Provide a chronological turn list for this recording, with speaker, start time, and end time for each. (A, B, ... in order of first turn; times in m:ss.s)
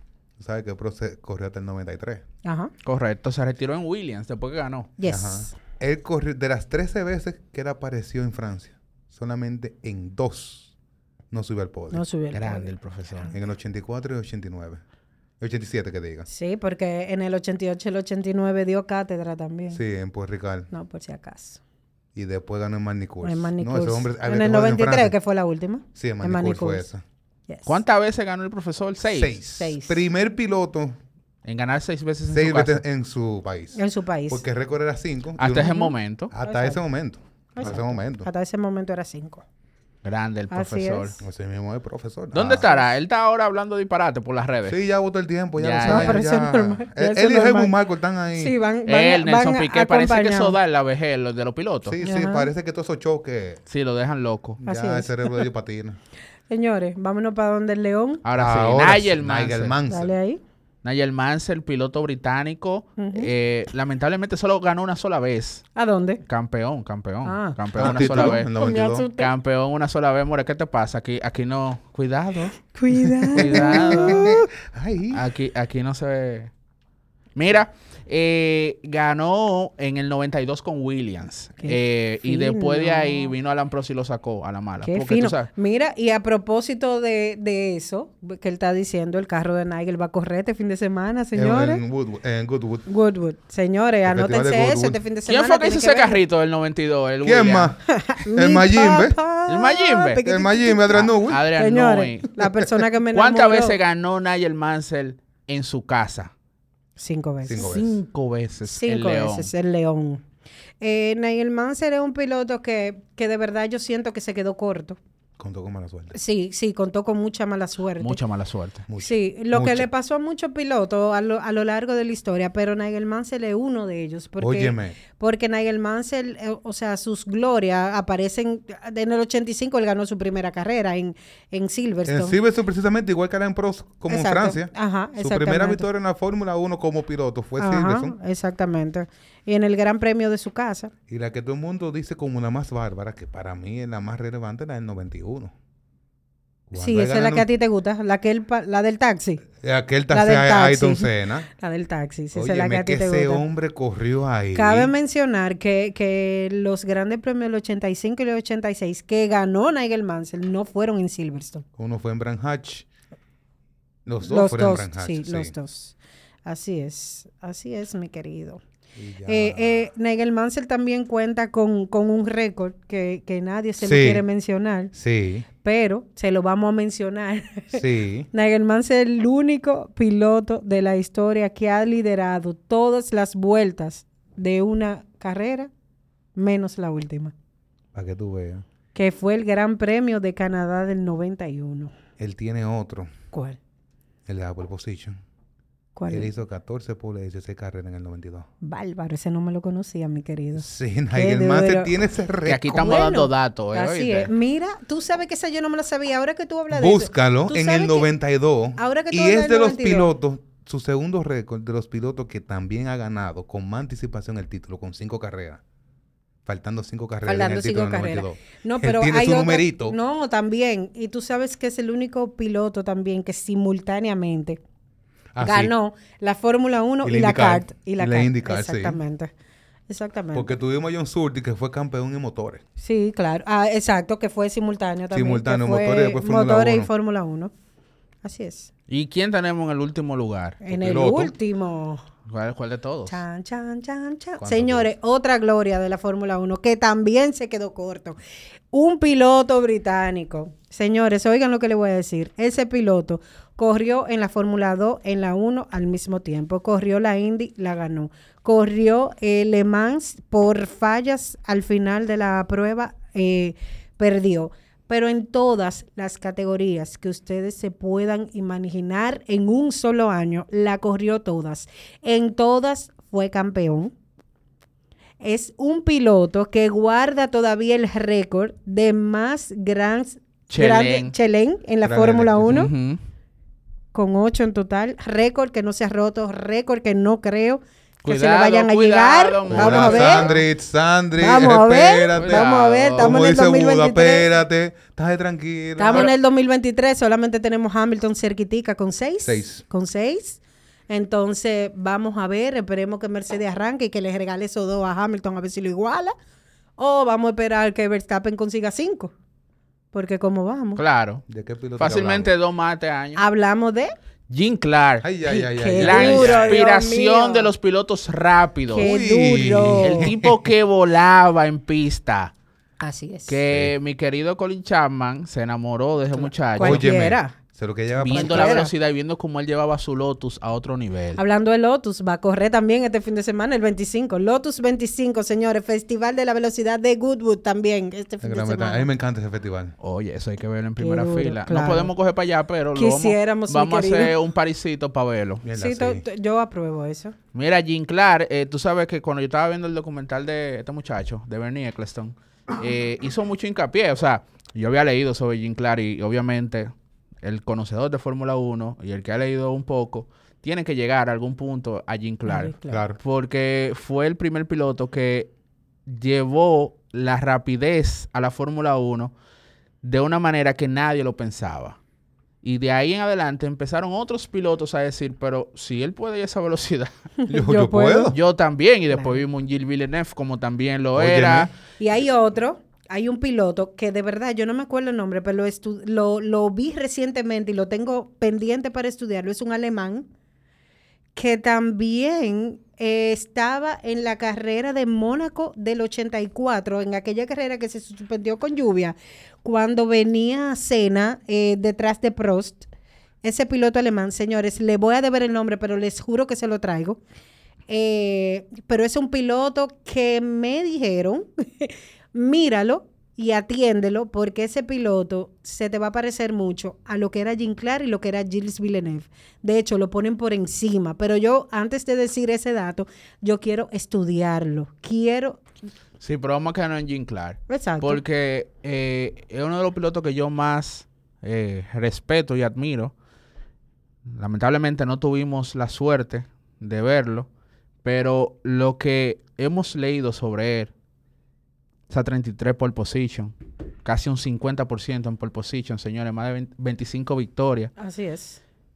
0:00.4-0:02.2 A
0:02.4-0:02.7 B
0:02.8-0:04.9 C
0:05.0-0:05.5 B
0:05.0-0:10.7 A
0:11.3-0:12.0 A
0:11.9-0:13.3 B
0:12.3-0:13.3 C
0:13.3-0:14.8 A
0:15.4-0:16.3 A
0:16.3-0:19.8 B
0:19.7-0:20.7 A
0:20.7-0:21.6 B
0:22.1-0:25.1 A
0:23.2-0:26.9 B
0:25.9-0:27.0 A
0:27.5-0:27.8 B
0:27.6-0:29.4 C
0:29.1-0:31.0 A
0:29.5-0:30.0 B
0:31.4-0:32.8 C
0:32.3-0:38.3 A
0:33.7-0:34.4 B
0:35.4-0:36.3 C
0:35.6-0:36.8 B
0:37.5-0:39.4 B
0:40.0-0:41.2 C
0:40.5-0:41.2 B
0:41.2-0:42.7 A
0:42.3-0:44.8 C
0:42.6-0:42.9 B
0:44.7-0:48.5 A
0:45.6-0:46.2 C
0:45.8-0:47.7 B
0:48.4-0:50.6 B
0:48.8-0:52.0 C
0:51.8-0:53.6 A
0:52.0-0:52.5 B
0:53.7-0:54.6 C
0:54.6-0:56.0 A
0:54.6-0:55.4 B
0:56.5-0:58.2 B
0:58.2-0:59.8 C
0:58.3-1:00.1 A
0:59.9-1:00.4 B
1:00.8-1:05.6 C
1:03.0-1:03.3 B
1:05.7-1:06.2 B
1:06.2-1:08.5 C
1:07.2-1:09.3 B
1:07.8-1:09.1 A
1:09.2-1:12.6 C
1:12.7-1:14.4 B
1:13.2-1:15.2 A
1:13.4-1:14.2 C
1:15.1-1:16.5 C
1:17.4-1:25.5 C
1:21.6-1:23.3 B
1:24.8-1:31.8 B
1:31.3-1:32.8 A
1:32.8-1:36.2 B
1:34.0-1:35.0 A
1:35.2-1:37.7 C
1:37.2-1:39.2 A
1:37.9-1:43.8 B
1:39.5-1:40.2 C
1:40.2-1:41.5 A
1:41.0-1:42.4 C
1:43.1-1:46.3 C
1:47.0-1:47.7 B
1:47.4-1:48.0 A
1:47.6-1:49.5 C
1:48.6-1:50.2 B
1:50.8-1:55.0 B
1:55.4-1:56.1 A
1:56.1-1:58.2 B
1:58.0-1:58.8 C
1:58.9-1:59.9 A
1:59.0-2:12.4 B
2:04.4-2:05.0 A
2:12.0-2:18.2 A
2:14.1-2:15.9 B
2:17.6-2:20.9 B
2:21.1-2:25.5 A
2:26.7-2:27.5 A
2:26.8-2:29.4 B
2:29.6-2:31.5 A
2:30.1-2:33.4 B
2:32.3-2:34.9 A
2:34.5-2:41.6 B
2:41.8-2:42.9 A
2:44.0-2:45.5 A
2:44.2-2:48.6 B
2:48.9-2:49.9 A
2:49.3-2:54.9 B
2:53.8-2:54.2 A
2:54.9-2:55.5 A
2:55.6-3:05.7 B
2:57.7-2:58.3 A
3:06.4-3:07.3 B
3:07.9-3:08.6 A
3:08.9-3:11.9 B
3:12.2-3:13.1 A
3:13.3-3:13.6 B
3:14.2-3:15.2 A
3:15.9-3:16.3 B
3:16.1-3:18.5 A
3:18.6-3:21.9 B
3:20.6-3:23.0 A
3:22.4-3:24.3 C
3:22.8-3:28.1 B
3:26.7-3:35.6 A
3:28.8-3:30.1 B
3:36.4-3:40.0 A
3:37.2-3:44.6 B
3:45.3-3:45.7 A
3:45.4-3:49.3 B
3:47.0-3:49.0 A
3:49.9-3:50.5 B
3:50.3-3:52.6 A
3:52.8-3:57.5 B
3:55.1-3:56.9 A
3:58.2-3:58.7 B
3:58.9-4:00.6 C
4:00.6-4:02.0 B
4:00.7-4:01.3 A
4:02.3-4:03.2 C
4:03.1-4:08.2 B
4:04.4-4:04.9 A
4:08.7-4:33.9 B
4:35.2-4:42.7 B
4:40.5-4:41.1 C
4:41.8-4:42.6 A
4:42.5-4:43.0 C
4:43.9-4:50.3 B
4:48.0-4:50.4 C
4:49.5-4:56.1 A
4:51.2-4:54.3 B
4:52.2-4:53.2 C
4:55.8-5:06.1 B
4:59.2-4:59.6 A
5:06.8-5:09.1 B
5:09.9-5:10.8 B
5:10.8-5:11.2 C
5:11.3-5:12.3 A
5:11.8-5:13.2 C
5:13.2-5:13.9 B
5:14.3-5:15.1 C
5:15.0-5:16.6 A
5:15.2-5:17.5 B
5:15.7-5:18.9 C
5:18.7-5:20.1 B
5:18.8-5:20.3 A
5:19.8-5:22.3 C
5:22.8-5:23.4 B
5:23.3-5:26.9 C
5:23.5-5:23.7 A
5:26.1-5:27.4 B
5:26.6-5:28.6 A
5:28.0-5:31.2 C
5:28.1-5:28.7 B
5:31.2-5:38.9 B
5:38.2-5:39.7 A
5:39.8-5:45.4 C
5:40.8-5:41.9 B
5:42.7-5:44.2 B
5:45.4-5:46.0 A
5:45.5-5:47.1 B
5:47.3-5:56.7 C
5:57.2-6:05.3 C
6:02.2-6:02.8 B
6:02.7-6:03.0 A
6:05.9-6:09.1 C
6:09.8-6:11.8 C
6:12.4-6:16.9 C
6:17.2-6:18.1 B
6:17.3-6:18.2 A
6:18.1-6:21.5 C
6:18.9-6:19.2 B
6:20.9-6:21.5 A
6:21.8-6:30.1 B
6:31.1-6:42.7 B
6:43.2-6:47.0 B
6:47.7-7:05.4 B
7:06.0-7:12.9 C
7:07.5-7:08.0 B
7:14.1-7:17.3 C
7:17.8-7:20.7 C
7:21.9-7:27.7 C
7:27.8-7:28.4 B